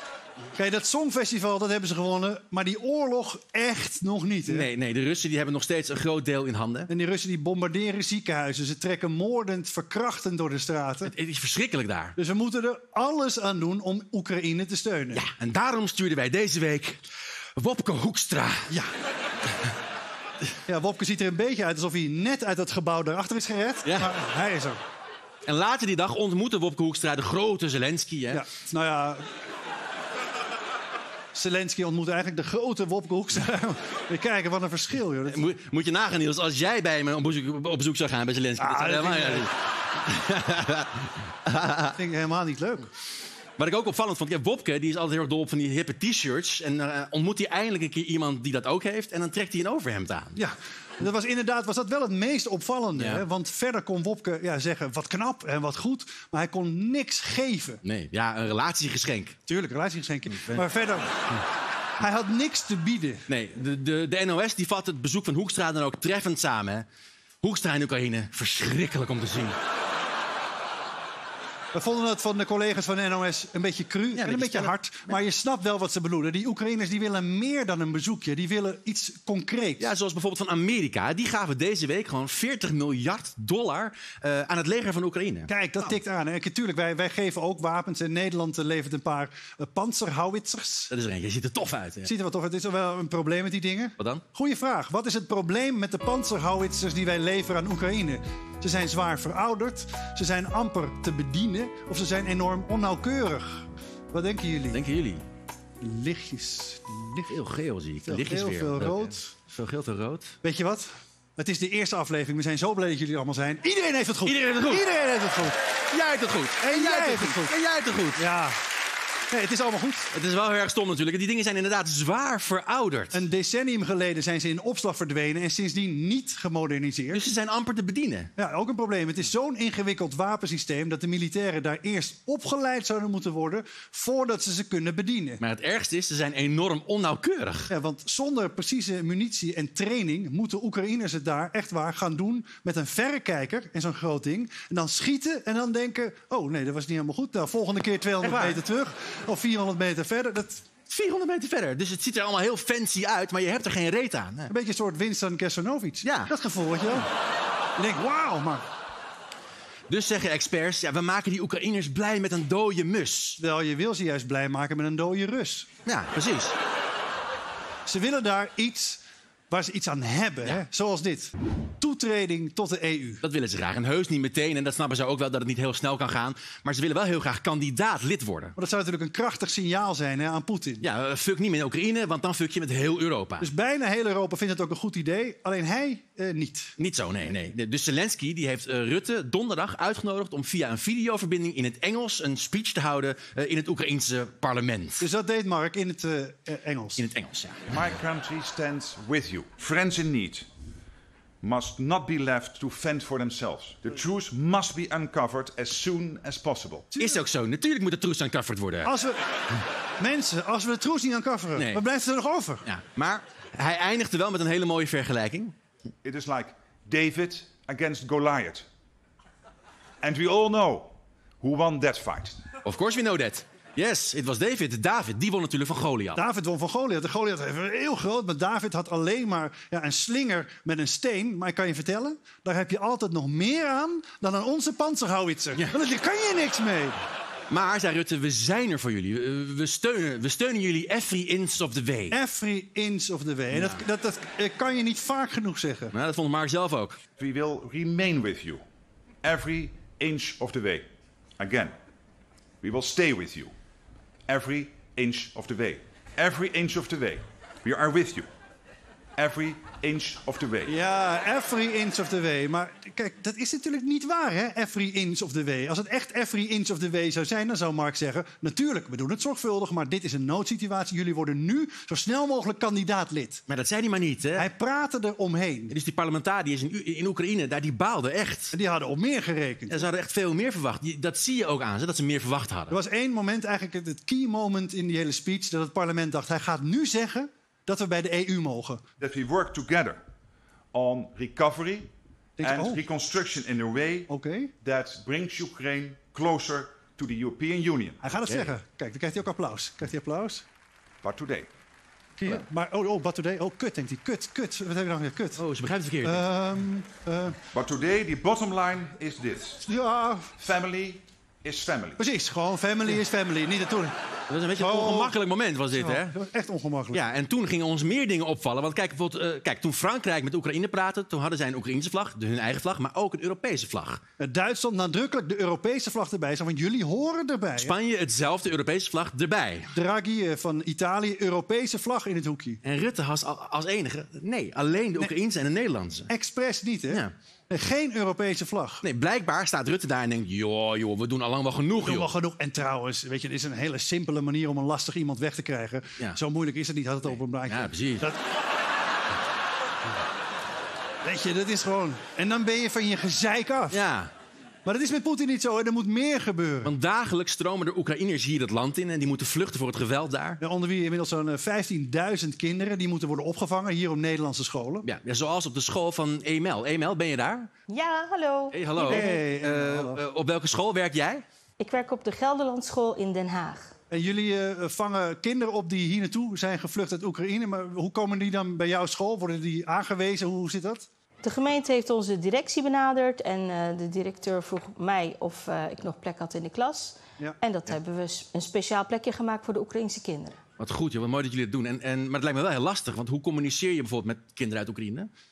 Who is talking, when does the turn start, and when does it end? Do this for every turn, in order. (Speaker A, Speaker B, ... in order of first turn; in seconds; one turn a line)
Speaker A: 0.5-4.7
Speaker B: 4.5-6.9
Speaker A: 6.9-11.1
Speaker B: 11.0-12.1
Speaker A: 12.2-15.2
Speaker B: 15.1-17.0
Speaker B: 17.6-18.7
Speaker A: 20.7-24.8
Speaker B: 23.8-24.1
Speaker B: 25.4-28.4
Speaker A: 28.3-29.2
Speaker A: 31.3-35.4
Speaker B: 35.3-39.5
Speaker A: 38.6-39.5
Speaker B: 40.0-42.0
Speaker A: 41.9-42.9
Speaker B: 43.6-50.4
Speaker A: 50.3-57.8
Speaker B: 53.0-53.2
Speaker B: 57.8-59.4
Speaker A: 59.5-61.1
Speaker B: 60.3-60.6
Speaker A: 62.0-63.2
Speaker B: 63.3-66.8
Speaker B: 67.4-69.5
Speaker A: 71.7-79.9
Speaker B: 74.1-74.7
Speaker B: 79.8-85.5
Speaker A: 85.5-90.9
Speaker B: 90.9-92.1
Speaker A: 92.0-104.8
Speaker B: 104.7-105.2
Speaker A: 105.8-107.3
Speaker B: 107.3-110.3
Speaker A: 108.1-109.3
Speaker A: 110.4-115.5
Speaker B: 114.2-114.8
Speaker B: 115.9-118.2
Speaker A: 116.6-117.5
Speaker A: 118.2-118.6
Speaker A: 119.3-120.1
Speaker B: 120.1-123.2
Speaker A: 123.1-127.2
Speaker B: 127.1-128.3
Speaker A: 128.4-135.4
Speaker B: 135.4-137.7
Speaker A: 137.7-150.6
Speaker B: 148.2-148.6
Speaker B: 150.9-154.5
Speaker A: 154.5-157.1
Speaker B: 156.0-156.3
Speaker A: 157.8-158.7
Speaker B: 159.9-163.4
Speaker A: 163.4-165.7
Speaker B: 165.8-166.5
Speaker A: 167.8-173.2
Speaker B: 173.2-178.5
Speaker A: 178.6-180.8
Speaker B: 180.8-183.5
Speaker A: 183.4-186.7
Speaker B: 186.8-195.1
Speaker A: 195.0-197.0
Speaker B: 197.0-197.6
Speaker C: 197.7-200.5
Speaker C: 201.4-206.9
Speaker A: 206.9-207.2
Speaker B: 207.0-208.9
Speaker A: 208.8-209.2
Speaker A: 210.0-212.6
Speaker B: 211.6-211.8
Speaker B: 212.7-215.5
Speaker C: 216.0-218.7
Speaker C: 220.0-222.4
Speaker B: 222.7-226.2
Speaker A: 226.2-237.0
Speaker B: 237.5-242.2
Speaker A: 242.1-245.9
Speaker B: 243.5-243.8
Speaker B: 245.9-247.0
Speaker C: 247.2-248.6
Speaker C: 249.2-250.9
Speaker C: 251.4-251.8
Speaker C: 252.6-253.5
Speaker C: 254.3-258.3
Speaker C: 259.2-260.8
Speaker A: 260.6-273.4
Speaker B: 273.5-274.5
Speaker A: 274.4-275.8
Speaker B: 275.7-278.5
Speaker A: 278.5-279.9
Speaker B: 279.7-282.8
Speaker A: 282.7-288.8
Speaker C: 289.0-290.0
Speaker C: 290.7-291.9
Speaker A: 292.4-292.8
Speaker C: 292.4-294.1
Speaker A: 294.1-294.5
Speaker C: 294.6-298.0
Speaker A: 298.0-300.4
Speaker C: 301.0-301.5
Speaker A: 302.2-305.4
Speaker B: 305.4-306.2
Speaker A: 306.0-307.4
Speaker C: 307.5-309.6
Speaker A: 309.6-310.3
Speaker C: 310.4-312.0
Speaker A: 312.0-313.9
Speaker B: 314.3-316.1
Speaker A: 314.5-315.1
Speaker A: 315.8-317.0
Speaker B: 316.9-324.0
Speaker A: 324.2-327.7
Speaker B: 327.6-329.7
Speaker A: 329.7-332.6
Speaker B: 332.6-336.1
Speaker A: 336.1-338.8
Speaker B: 338.8-342.1
Speaker A: 341.8-348.2
Speaker B: 347.4-348.1
Speaker A: 351.0-353.8
Speaker B: 353.7-354.1
Speaker A: 354.6-356.7
Speaker B: 356.6-360.4
Speaker A: 360.4-364.9
Speaker B: 364.9-367.5
Speaker D: 367.7-369.1
Speaker B: 368.5-371.2
Speaker A: 368.8-370.0
Speaker D: 371.6-373.7
Speaker A: 373.9-380.9
Speaker D: 381.2-390.4
Speaker B: 390.6-395.1